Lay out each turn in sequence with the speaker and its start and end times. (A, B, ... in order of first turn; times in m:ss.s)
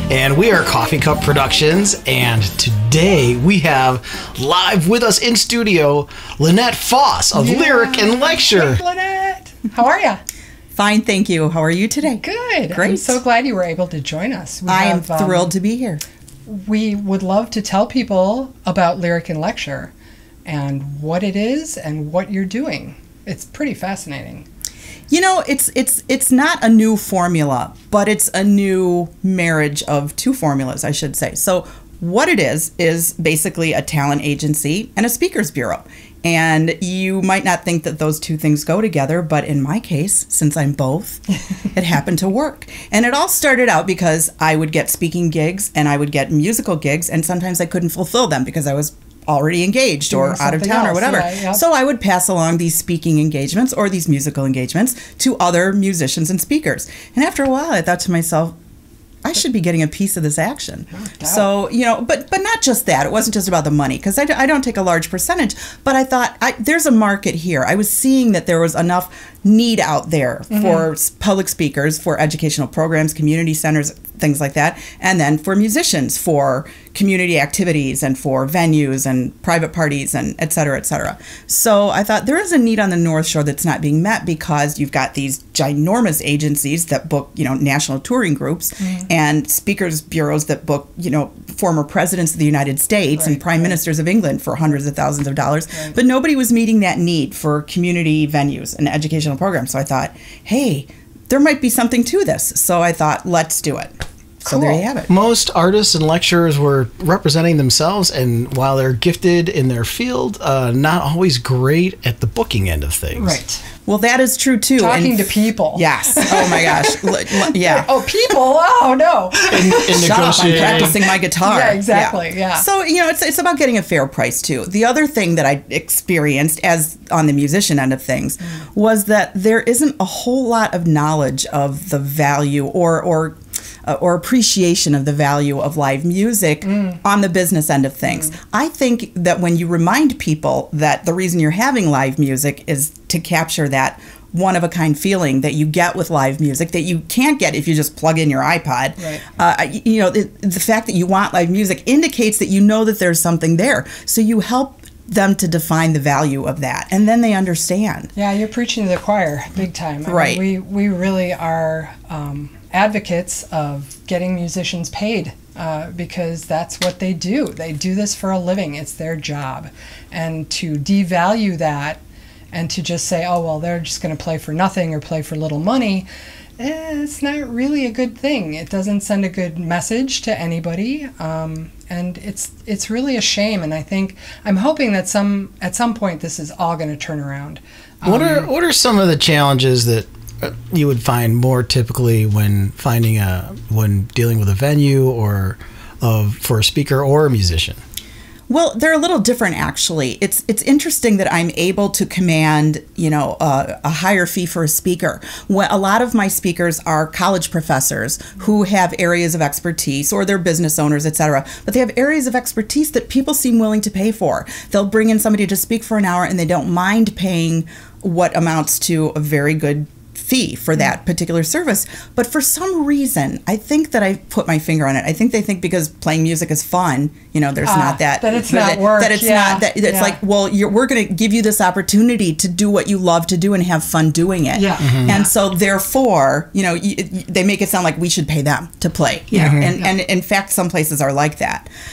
0:00.1-0:08.8 A
0:07.3-0:10.2 B
0:10.7-0:13.2 C
0:12.1-0:15.5 B
0:14.7-0:16.0 C
0:16.4-0:19.9 B
0:20.4-0:24.4 B
0:25.1-0:41.2 C
0:41.7-0:58.5 C
0:50.1-0:51.6 B
0:59.2-1:43.9 C
1:00.9-1:01.5 B
1:10.5-1:10.9 B
1:28.8-1:29.1 B
1:33.2-1:33.8 B
1:44.4-1:44.9 B
1:44.4-1:45.1 C
1:45.1-1:53.4 A
1:53.2-1:53.6 B
1:53.8-1:57.9 C
1:54.8-2:02.6 B
1:59.5-2:00.9 A
1:59.9-2:38.1 C
2:16.7-2:17.0 B
2:29.0-2:29.2 B
2:38.1-2:52.0 B
2:40.1-2:40.4 C
2:52.5-2:56.1 B
2:56.6-3:08.5 B
3:08.0-3:17.8 A
3:18.5-4:01.7 C
3:47.6-3:50.2 B
3:54.5-3:55.3 B
3:54.8-3:55.2 A
3:59.3-3:59.7 A
3:59.3-3:59.9 B